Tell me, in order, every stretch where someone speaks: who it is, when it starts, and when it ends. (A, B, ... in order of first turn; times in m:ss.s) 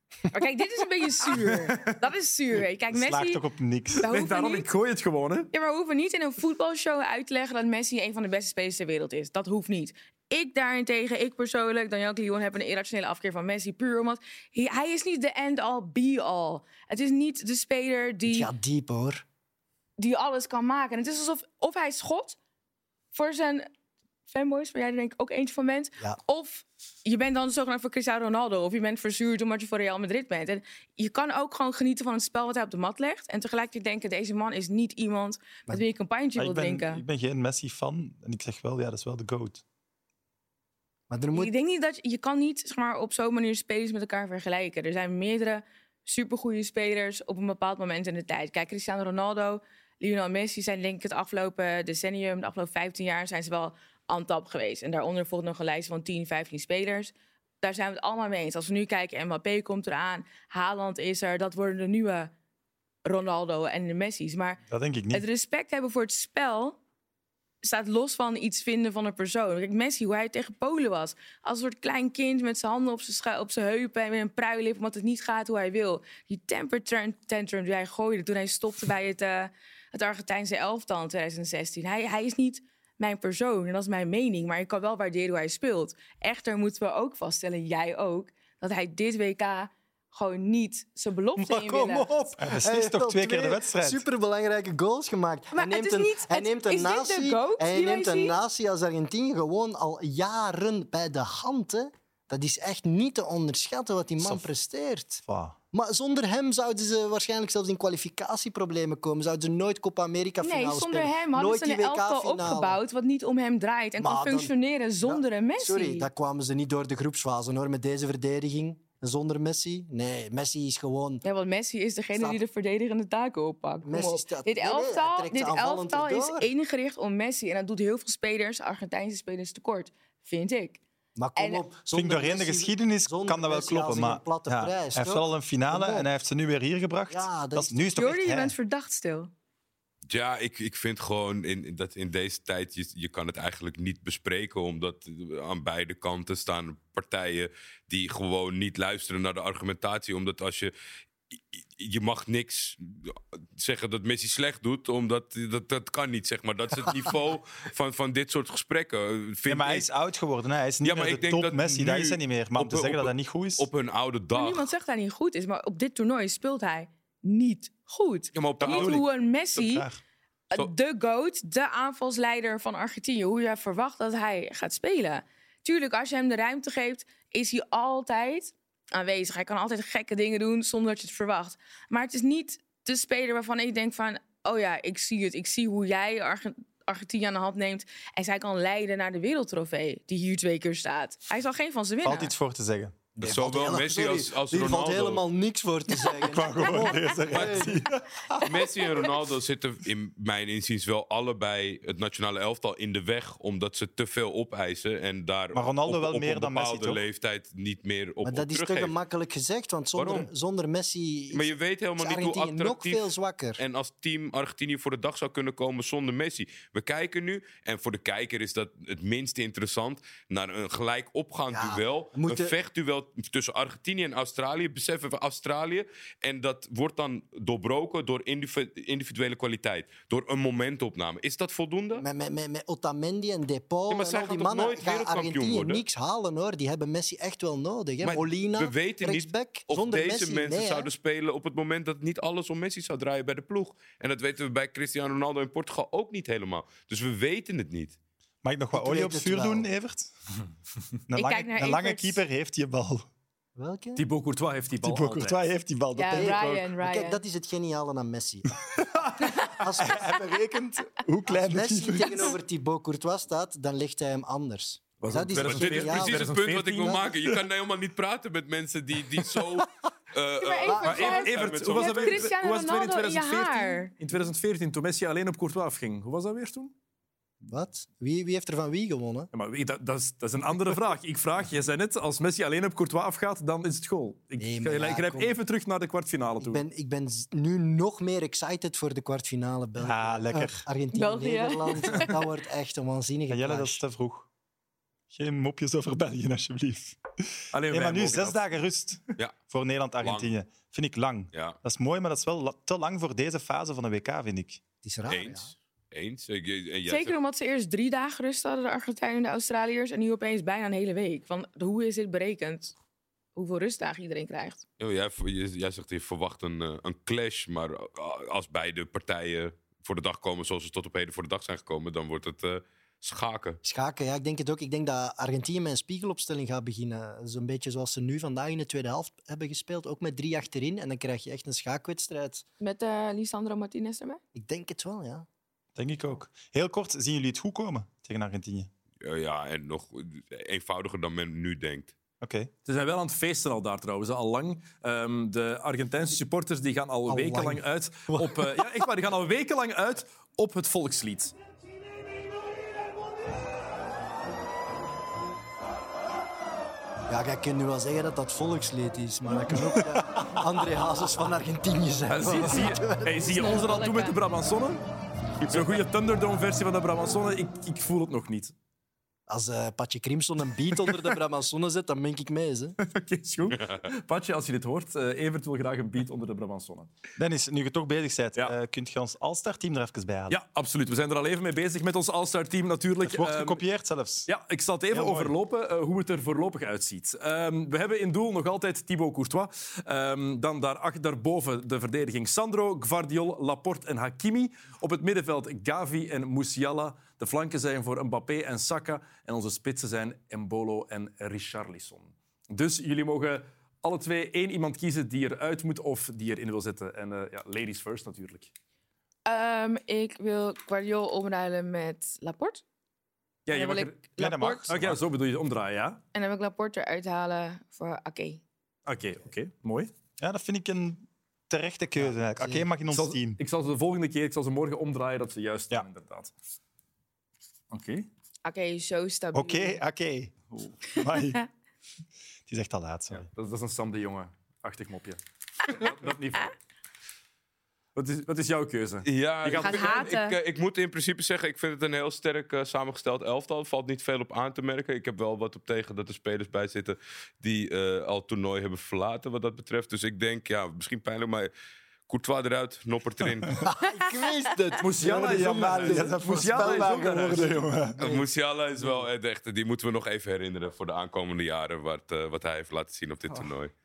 0:00.3-0:03.4 A
0:01.3-0:01.9 B
0:02.9-0:04.0 C
0:04.0-0:04.7 A
0:04.0-0:05.5 B
0:05.5-0:18.5 A
0:18.3-0:19.2 D
0:20.0-0:22.4 A
0:23.1-0:23.7 A
0:24.3-0:37.0 A
0:36.4-0:39.6 C
0:41.1-0:41.5 D
0:41.3-1:02.3 A
1:03.0-1:06.8 A
1:04.7-1:05.2 C
1:07.6-1:32.3 A
1:31.4-1:52.8 D
1:32.4-1:34.0 C
1:35.5-1:38.4 A
1:44.2-1:44.5 C
1:45.2-1:45.6 C
1:50.4-1:56.1 A
1:54.0-2:01.2 D
2:01.2-2:10.8 A
2:02.1-2:02.4 D
2:03.8-2:06.5 D
2:11.2-2:16.1 D
2:11.4-2:11.6 A
2:11.9-2:18.5 C
2:17.1-2:18.2 D
2:18.0-2:19.3 A
2:20.1-2:30.7 E
2:31.3-2:39.9 E
2:39.5-2:43.7 C
2:40.8-2:44.7 E
2:44.3-2:49.9 A
2:48.3-2:49.0 E
2:49.6-2:50.0 C
2:50.5-3:12.3 A
3:12.0-3:13.0 C
3:13.2-3:17.8 D
3:13.2-3:15.2 E
3:16.2-3:18.4 C
3:17.3-3:17.7 E
3:18.4-3:28.9 E
3:25.5-3:27.0 C
3:28.2-3:33.6 D
3:30.0-3:30.3 E
3:31.3-3:33.1 E
3:33.6-3:52.0 E
3:41.5-3:42.5 D
3:52.0-4:00.9 D
3:53.9-3:55.8 E
3:58.0-4:08.0 E
4:08.4-4:10.1 C
4:08.7-4:09.7 D
4:11.1-4:13.1 C
4:11.2-4:12.2 A
4:13.6-4:14.0 D
4:14.0-4:15.4 B
4:14.8-4:16.7 C
4:16.0-4:17.2 A
4:16.1-4:18.6 D
4:18.8-4:22.4 C
4:19.4-4:20.2 D
4:21.3-4:26.3 D
4:25.0-4:27.1 B
4:25.4-4:32.3 E
4:30.4-4:33.9 A
4:30.8-4:36.7 B
4:37.4-4:39.3 D
4:39.3-4:46.6 B
4:44.4-4:45.4 D
4:46.4-4:53.8 D
4:49.8-4:50.6 C
4:50.9-4:52.1 A
4:53.3-4:54.3 C
4:55.1-4:57.0 C
4:57.5-4:58.4 B
4:57.7-5:04.6 C
5:00.0-5:00.3 E
5:01.3-5:01.6 E
5:04.8-5:05.5 D
5:05.1-5:07.2 E
5:06.9-5:12.8 A
5:13.4-5:14.6 A
5:14.8-5:23.6 E
5:23.6-5:32.4 D
5:32.6-5:34.2 A
5:34.4-5:35.3 D
5:35.8-5:38.7 C
5:39.0-5:41.9 E
5:42.2-5:42.5 C
5:42.6-5:51.3 B
5:47.1-5:48.8 D
5:57.1-6:03.4 D
6:02.1-6:04.8 B
6:03.2-6:04.2 A
6:05.5-6:08.5 B
6:09.3-6:12.8 D
6:12.8-6:16.9 B
6:17.2-6:20.4 C
6:20.3-6:23.6 B
6:23.0-6:24.3 C
6:24.3-6:48.5 B
6:24.9-6:25.4 C
6:49.3-6:52.6 A
6:53.5-6:54.2 B
6:53.5-6:54.7 A
6:54.2-6:55.0 C
6:54.7-6:56.0 B
6:56.1-6:58.4 A
6:58.9-6:59.9 B
7:00.2-7:03.4 C
7:02.9-7:06.3 B
7:07.7-7:08.1 B
7:08.4-7:09.8 A
7:09.3-7:11.4 C
7:10.5-7:10.8 B
7:12.5-7:13.3 C
7:13.1-7:16.5 B
7:18.0-7:20.1 B
7:19.1-7:31.5 E
7:19.6-7:20.4 A
7:32.1-7:33.6 E
7:33.7-7:37.1 D
7:34.8-7:37.6 B
7:35.0-7:38.2 C
7:38.0-7:38.2 D
7:38.0-7:43.7 E